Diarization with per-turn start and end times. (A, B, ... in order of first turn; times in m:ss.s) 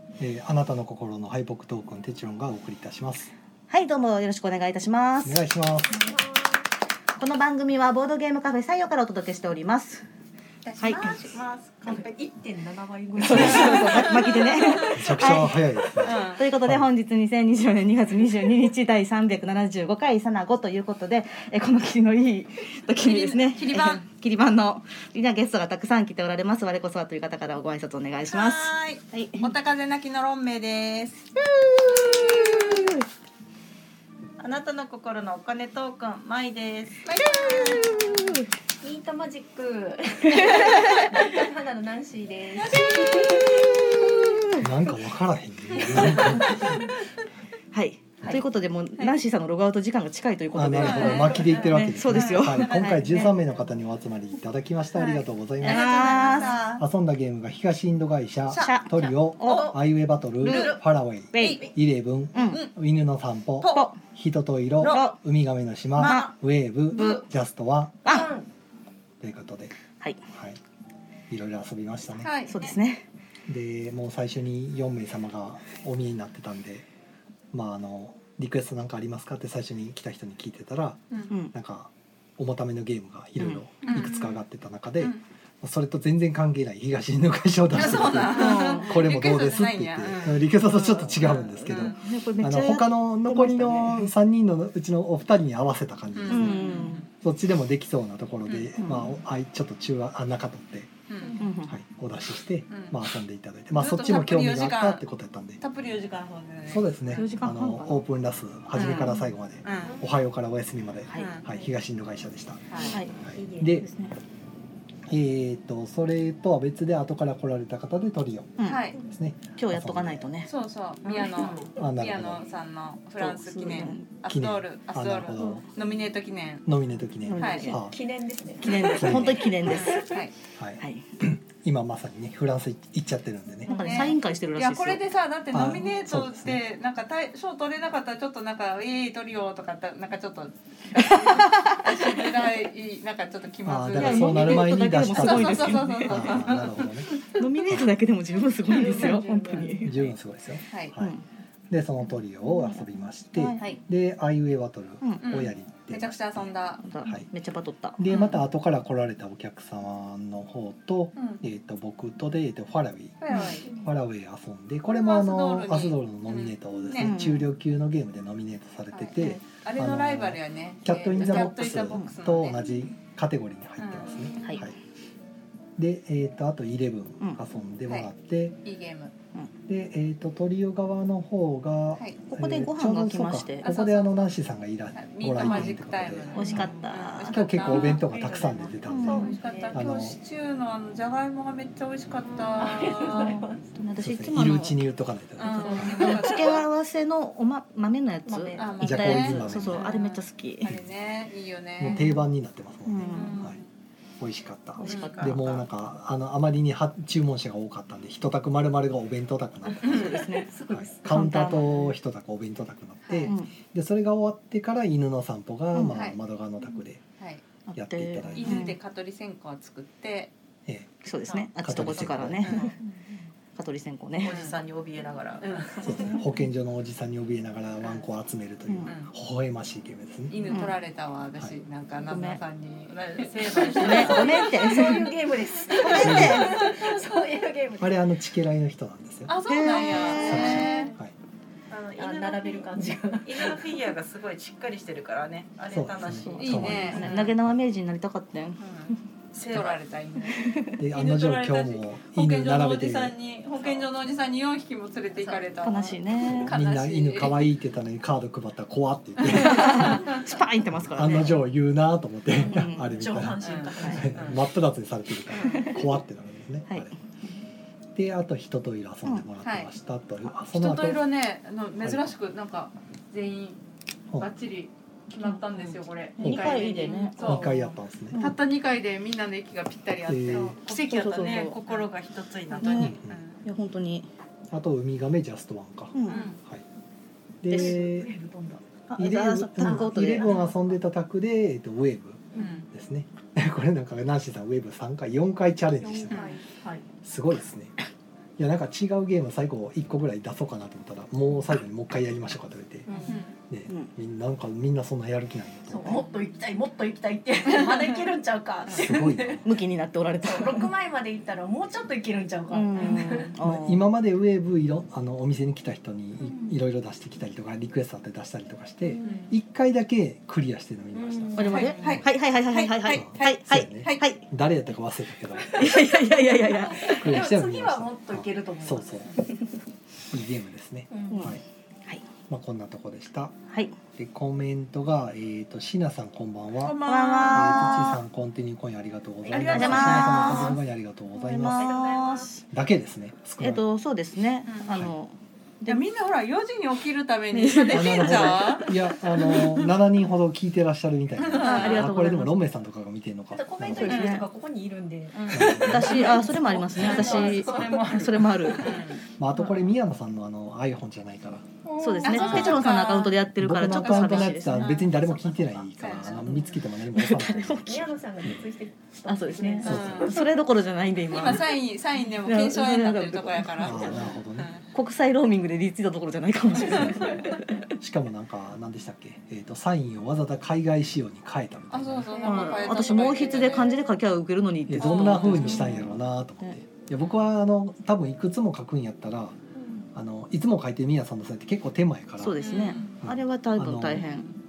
0:00.2-0:03.3 A
0:03.7-0:05.4 B
0:05.2-0:06.0 A
0:07.2-0:10.0 B
0:10.6-0:11.3 C
0:10.8-0:11.2 B
0:11.0-0:15.1 D
0:11.1-0:12.0 E
0:13.2-0:29.5 B
0:13.3-0:13.7 A
0:13.7-0:14.0 C
0:14.9-0:16.8 A
0:16.0-0:16.4 C
0:23.0-0:24.0 C
0:28.3-0:31.3 C
0:31.5-0:33.0 B
0:31.8-0:32.9 C
0:34.4-0:38.3 C
0:34.4-0:35.5 E
0:37.2-0:38.5 B
0:38.8-0:43.7 D
0:40.3-0:41.2 B
0:42.6-0:44.1 C
0:42.7-0:44.6 B
0:44.6-0:46.9 A
0:46.1-0:46.5 D
0:46.2-0:46.5 C
0:47.7-0:53.2 B
0:50.5-0:56.0 A
0:50.8-0:53.4 C
0:54.9-0:56.8 C
0:55.6-0:56.6 B
0:56.8-1:08.0 A
0:58.5-0:58.8 C
0:58.6-0:59.7 B
0:59.4-0:59.7 C
1:00.4-1:00.8 C
1:01.3-1:01.7 B
1:01.4-1:01.7 C
1:02.3-1:02.6 B
1:03.6-1:03.9 C
1:03.7-1:04.0 B
1:04.8-1:05.1 C
1:04.8-1:05.2 B
1:06.0-1:06.3 B
1:06.9-1:07.2 C
1:08.0-1:08.3 B
1:08.0-1:08.5 D
1:09.2-1:09.7 A
1:10.3-1:10.6 A
1:11.3-1:12.3 A
1:12.2-1:12.7 C
1:12.5-1:13.0 B
1:13.5-1:16.8 A
1:17.5-1:21.0 A
1:21.3-1:21.5 B
1:21.5-1:40.9 A
1:23.4-1:24.0 B
1:23.8-1:24.4 C
1:27.7-1:31.9 C
1:28.1-1:29.0 B
1:31.2-1:34.1 B
1:36.1-1:37.1 C
1:36.3-1:37.0 B
1:38.5-1:38.8 C
1:38.8-1:39.1 B
1:41.1-1:41.4 C
1:41.2-1:41.5 D
1:41.4-1:41.7 B
1:41.7-1:45.6 A
1:42.7-1:43.0 C
1:43.8-1:45.0 C
1:45.6-1:47.2 C
1:46.7-1:53.9 A
1:47.1-1:48.0 B
1:48.7-1:49.2 B
1:48.7-1:50.0 C
1:49.8-1:50.1 D
1:51.1-1:51.3 B
1:51.1-1:51.4 C
1:52.7-1:53.0 C
1:52.8-1:53.8 D
1:52.9-1:53.1 B
1:53.8-1:54.1 B
1:55.1-2:00.3 A
1:58.6-1:58.9 B
1:58.6-1:59.0 C
1:59.6-2:00.5 B
2:00.5-2:06.6 C
2:01.0-2:01.7 D
2:01.7-2:02.4 A
2:03.2-2:04.1 B
2:04.3-2:05.7 A
2:05.3-2:05.6 B
2:06.6-2:08.0 A
2:07.2-2:07.8 B
2:07.4-2:07.7 C
2:07.7-2:10.1 D
2:08.6-2:10.1 B
2:09.0-2:10.0 A
2:09.6-2:10.3 C
2:10.6-2:13.8 A
2:10.8-2:11.0 B
2:13.7-2:27.0 C
2:13.7-2:15.0 B
2:13.7-2:14.1 D
2:15.5-2:16.6 A
2:20.9-2:21.9 B
2:23.6-2:27.1 A
2:23.9-2:26.5 B
2:27.3-2:29.9 B
2:27.6-2:27.9 A
2:28.7-2:29.9 D
2:28.7-2:30.0 C
2:29.8-2:31.1 A
2:30.7-2:30.9 C
2:31.0-2:31.2 B
2:31.7-2:36.5 A
2:33.3-2:33.8 B
2:35.2-2:36.8 C
2:36.8-2:38.0 B
2:38.0-2:54.7 A
2:38.1-2:38.4 C
2:41.2-2:41.4 C
2:43.2-2:43.7 C
2:43.3-2:43.6 B
2:44.8-2:47.1 C
2:47.0-2:47.5 B
2:48.9-2:52.6 C
2:51.2-2:52.1 B
2:53.8-2:54.4 C
2:54.4-2:54.7 B
2:55.8-2:58.6 A
2:58.6-2:59.1 C
2:59.7-3:06.7 A
3:02.3-3:03.6 B
3:03.6-3:04.2 C
3:05.0-3:08.0 C
3:05.4-3:05.7 B
3:06.3-3:07.6 B
3:07.2-3:10.2 A
3:07.6-3:09.8 D
3:08.1-3:08.7 E
3:08.9-3:09.3 B
3:09.0-3:13.5 C
3:12.2-3:13.7 D
3:13.7-3:14.8 B
3:14.0-3:16.1 A
3:15.4-3:16.6 C
3:15.6-3:20.7 B
3:15.6-3:16.5 D
3:18.3-3:18.7 D
3:18.6-3:22.0 C
3:18.8-3:19.8 A
3:21.8-3:23.6 A
3:21.9-3:22.2 B
3:22.8-3:23.4 B
3:23.1-3:23.6 C
3:24.2-3:37.0 A
3:24.8-3:25.2 B
3:24.8-3:25.4 C
3:24.8-3:25.5 E
3:24.9-3:25.3 D
3:29.8-3:30.2 C
3:29.8-3:31.9 B
3:30.3-3:31.0 D
3:33.0-3:33.3 C
3:33.2-3:33.5 B
3:35.9-3:36.2 C
3:37.7-3:38.8 B
3:37.7-3:38.7 A
3:38.3-3:40.3 C
3:41.0-3:42.7 B
3:41.3-3:42.8 C
3:41.6-3:42.6 A
3:43.6-3:44.4 B
3:44.2-3:46.1 E
3:44.3-3:44.6 C
3:45.4-3:46.0 C
3:45.8-3:50.4 A
3:48.7-3:48.9 B
3:50.3-3:55.0 C
3:50.5-3:50.8 B
3:52.0-3:52.4 B
3:52.9-3:54.8 E
3:53.7-3:55.2 B
3:53.7-3:58.0 D
3:55.6-3:56.9 C
3:55.7-3:56.6 B
3:55.9-3:56.7 A
3:57.8-3:59.3 A
3:59.3-4:00.9 C
3:59.4-4:00.7 B
3:59.7-4:00.4 E
4:00.0-4:00.9 D
4:00.1-4:01.1 A
4:01.7-4:07.3 E
4:02.0-4:03.7 D
4:05.7-4:07.5 A
4:06.2-4:08.6 B
4:06.4-4:07.3 C
4:08.6-4:09.8 E
4:09.3-4:17.4 C
4:10.4-4:10.7 B
4:10.8-4:13.1 A
4:13.4-4:13.9 E
4:15.6-4:16.6 B
4:16.2-4:20.1 A
4:19.2-4:21.4 B
4:19.3-4:20.0 C
4:20.7-4:26.9 A
4:22.4-4:22.9 B
4:22.6-4:24.4 D
4:23.4-4:23.7 C
4:23.4-4:24.4 E
4:25.5-4:25.8 B
4:27.9-4:31.0 A
4:29.4-4:29.7 C
4:30.5-4:33.6 C
4:31.8-4:32.1 A
4:34.2-4:41.9 C
4:35.5-4:37.5 E
4:36.2-4:37.2 B
4:36.2-4:36.6 A
4:37.2-4:38.2 A
4:38.1-4:38.4 B
4:40.0-4:40.6 A
4:40.6-4:41.6 B
4:40.7-4:42.9 E
4:42.5-4:43.4 C
4:42.5-4:42.9 B
4:42.8-4:43.2 A
4:43.4-4:44.1 B
4:44.5-4:46.6 A
4:45.9-4:46.2 B
4:46.1-4:46.4 C
4:47.4-4:48.1 A
4:47.5-4:47.8 B
4:47.5-4:48.6 D
4:48.9-4:50.3 B
4:49.0-4:56.3 A
4:49.6-4:50.5 D
4:52.3-4:52.6 D
4:52.3-4:52.7 C
4:55.8-4:56.8 D
4:56.1-4:56.4 C
4:57.0-4:57.7 A
4:58.4-5:02.9 A
5:02.9-5:03.2 D
5:03.0-5:03.3 C
5:03.5-5:06.0 A
5:05.7-5:09.4 D
5:05.9-5:06.2 C
5:07.5-5:08.2 C
5:08.7-5:09.4 A
5:09.4-5:10.7 B
5:10.2-5:13.3 D
5:12.5-5:13.8 B
5:13.4-5:22.1 A
5:18.8-5:19.3 D
5:19.0-5:19.3 C
5:20.9-5:21.7 D
5:21.3-5:24.2 B
5:21.5-5:24.0 C
5:21.6-5:22.0 E
5:22.9-5:26.0 A
5:25.5-5:27.1 B
5:25.7-5:29.3 D
5:26.8-5:29.1 A
5:30.1-5:31.4 A
5:30.9-5:31.3 D
5:31.1-5:32.0 B
5:32.3-5:33.4 A
5:33.5-5:33.8 B
5:33.9-5:41.7 A
5:36.6-5:37.8 C
5:36.8-5:38.0 B
5:39.2-5:40.4 D
5:39.3-5:40.6 C
5:39.4-5:40.6 B
5:41.2-5:42.4 B
5:41.3-5:42.4 D
5:42.5-5:43.6 A
5:43.4-5:45.8 B
5:44.5-5:44.8 C
5:45.7-5:48.7 C
5:47.3-5:48.6 B
5:47.7-5:54.1 A
5:49.2-5:49.6 B
5:51.2-5:51.9 C
5:51.2-5:52.4 B
5:53.3-5:58.9 D
5:53.8-5:54.3 B
5:53.8-5:54.2 C
5:55.1-5:55.7 C
5:55.3-5:56.0 A
5:55.4-5:58.9 B
5:56.0-5:58.7 E
5:58.6-5:59.0 C
5:59.2-6:01.5 A
6:01.8-6:04.7 B
6:01.8-6:02.4 D
6:01.8-6:02.4 E
6:02.0-6:03.2 C
6:02.1-6:02.7 A
6:03.4-6:08.5 A
6:03.7-6:06.5 C
6:05.9-6:06.4 D
6:06.9-6:08.0 B
6:07.6-6:10.3 D
6:09.1-6:11.6 B
6:09.6-6:10.2 C
6:09.6-6:10.2 A
6:11.1-6:14.6 C
6:12.2-6:14.1 B
6:13.6-6:14.5 A
6:14.7-6:17.7 B
6:16.6-6:17.2 A
6:17.8-6:22.2 A
6:21.7-6:23.9 C
6:22.1-6:23.0 D
6:22.2-6:26.5 B
6:24.7-6:29.4 A
6:24.8-6:25.8 C
6:29.9-6:34.1 A
6:32.2-6:34.3 B
6:32.4-6:32.9 C